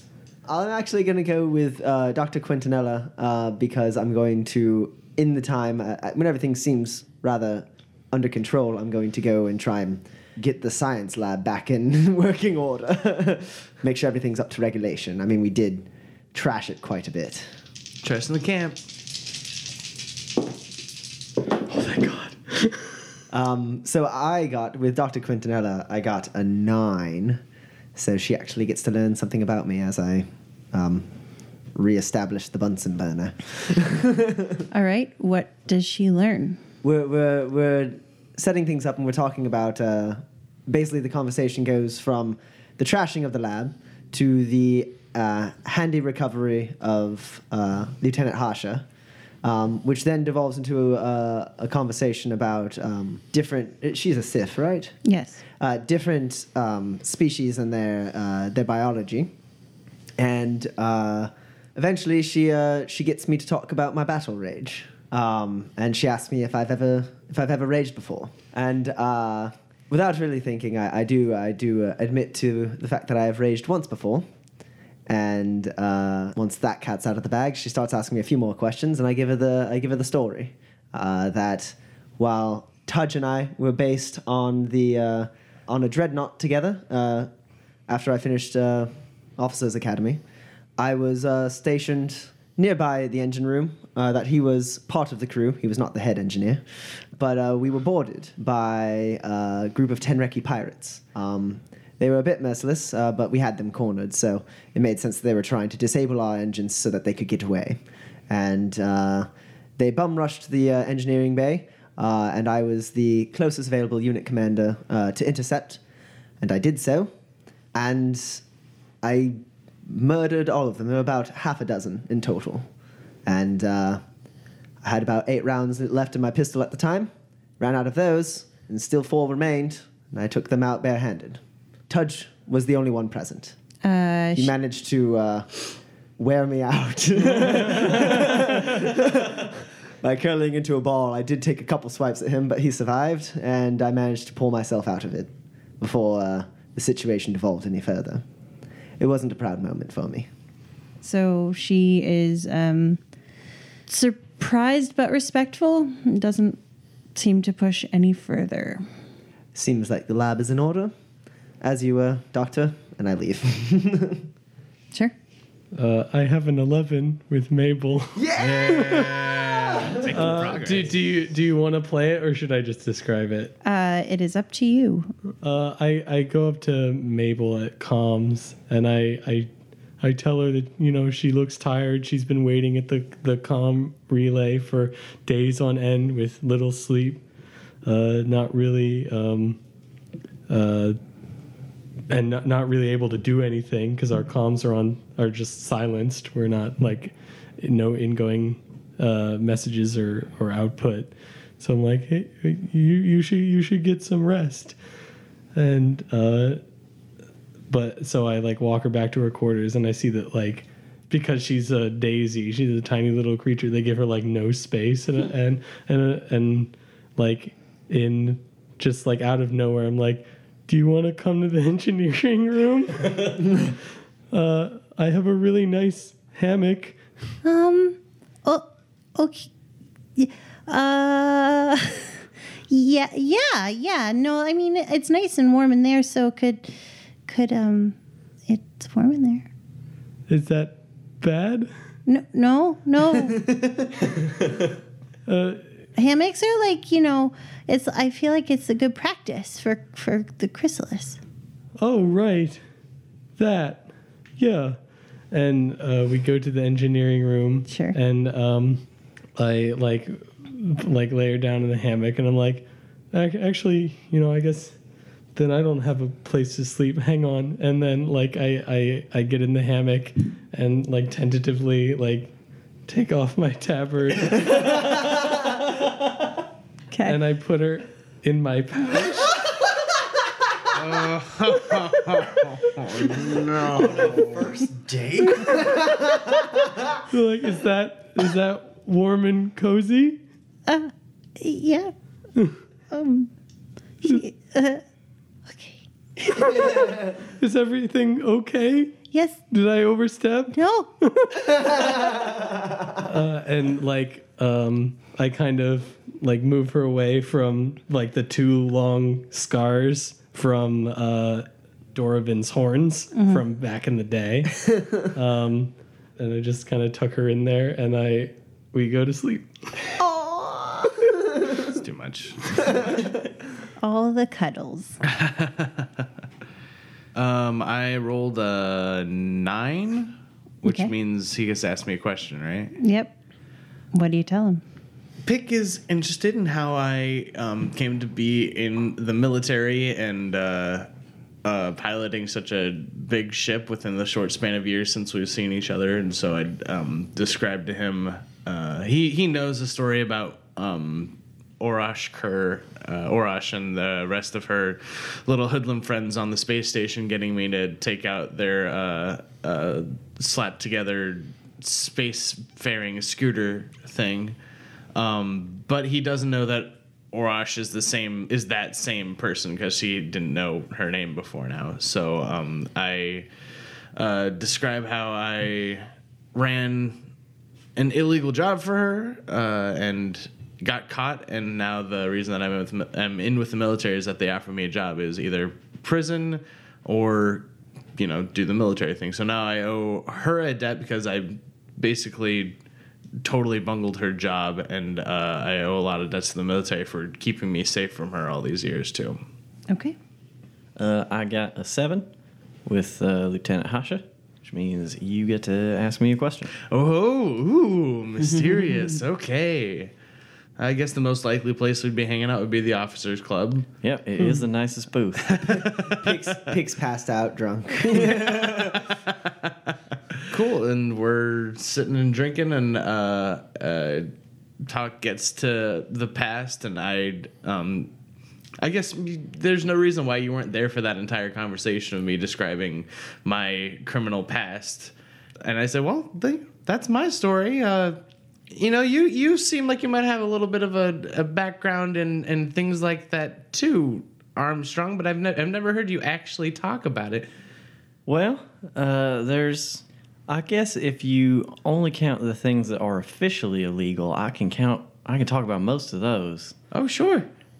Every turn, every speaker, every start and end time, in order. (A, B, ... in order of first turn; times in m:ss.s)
0:00.4-0:17.5 A
0:18.0-0:18.8 B
0:21.7-0:23.0 C
0:23.3-0:27.4 A
0:28.0-0:31.1 A
0:31.7-0:34.7 A
0:34.7-0:36.6 D
0:36.8-0:48.9 A
0:49.4-0:55.0 A
0:55.0-0:55.4 D
0:55.5-0:59.3 A
1:00.2-1:14.3 A
1:15.1-1:27.3 A
1:27.9-1:30.2 A
1:30.8-1:55.8 A
1:56.4-1:57.1 A
1:57.7-1:58.4 A
1:59.0-2:02.7 A
2:03.3-2:04.0 A
2:04.8-2:13.6 A
2:13.8-2:14.5 D
2:14.3-2:15.6 A
2:16.2-2:28.2 A
2:29.0-2:30.3 A
2:31.0-2:33.0 D
2:33.9-2:36.6 D
2:37.1-2:38.8 D
2:39.6-2:40.9 A
2:41.6-2:44.3 A
2:45.7-2:49.2 C
2:48.1-2:50.2 A
2:48.4-2:51.0 B
2:50.1-2:53.5 C
2:53.6-2:55.1 D
2:55.4-2:59.5 C
3:00.0-3:07.2 C
3:07.8-3:09.6 C
3:10.5-3:11.0 C
3:12.1-3:24.8 C
3:25.6-3:26.6 C
3:27.7-3:43.7 C
3:44.3-3:47.0 C
3:47.4-3:49.5 D
3:50.2-3:52.1 D
3:52.7-3:56.7 D
3:57.3-3:58.0 D
3:58.5-3:59.5 D
4:00.3-4:01.7 C
4:02.1-4:03.5 D
4:05.3-4:05.6 C
4:06.0-4:11.2 D
4:11.8-4:12.6 C
4:13.4-4:14.8 C
4:15.3-4:18.8 C
4:17.7-4:18.0 D
4:19.4-4:24.7 C
4:25.3-4:32.3 C
4:32.9-4:34.9 C
4:36.9-4:37.2 D
4:37.0-4:39.4 C
4:40.7-4:43.5 B
4:43.0-4:46.8 A
4:47.1-4:50.2 C
4:50.7-4:51.9 D
4:52.9-4:53.3 D
4:54.0-4:54.8 D
4:55.5-4:55.8 D
4:56.4-4:59.0 C
4:59.1-4:59.4 D
4:59.5-5:02.2 C
5:00.5-5:00.9 D
5:02.0-5:02.6 A
5:02.9-5:19.9 C
5:13.1-5:13.4 D
5:20.0-5:21.6 A
5:21.6-5:22.9 B
5:23.8-5:25.0 D
5:25.1-5:25.9 B
5:27.1-5:32.7 B
5:30.7-5:30.9 D
5:32.8-5:33.1 D
5:33.9-5:34.6 D
5:35.2-5:40.9 B
5:41.4-6:04.4 B
6:04.9-6:13.3 B
6:14.0-6:17.0 B
6:17.8-6:32.6 B
6:33.2-6:39.2 B
6:39.7-6:40.0 D
6:40.8-6:42.1 E
6:42.7-6:46.5 E
6:46.6-6:49.9 B
6:50.6-6:53.7 B
6:53.8-6:55.5 E
6:55.3-6:56.2 B
6:55.6-6:58.9 A
6:58.6-6:59.5 B
7:00.3-7:07.9 B
7:08.6-7:18.0 B
7:18.5-7:27.3 B
7:28.0-7:36.6 E
7:36.7-7:37.3 B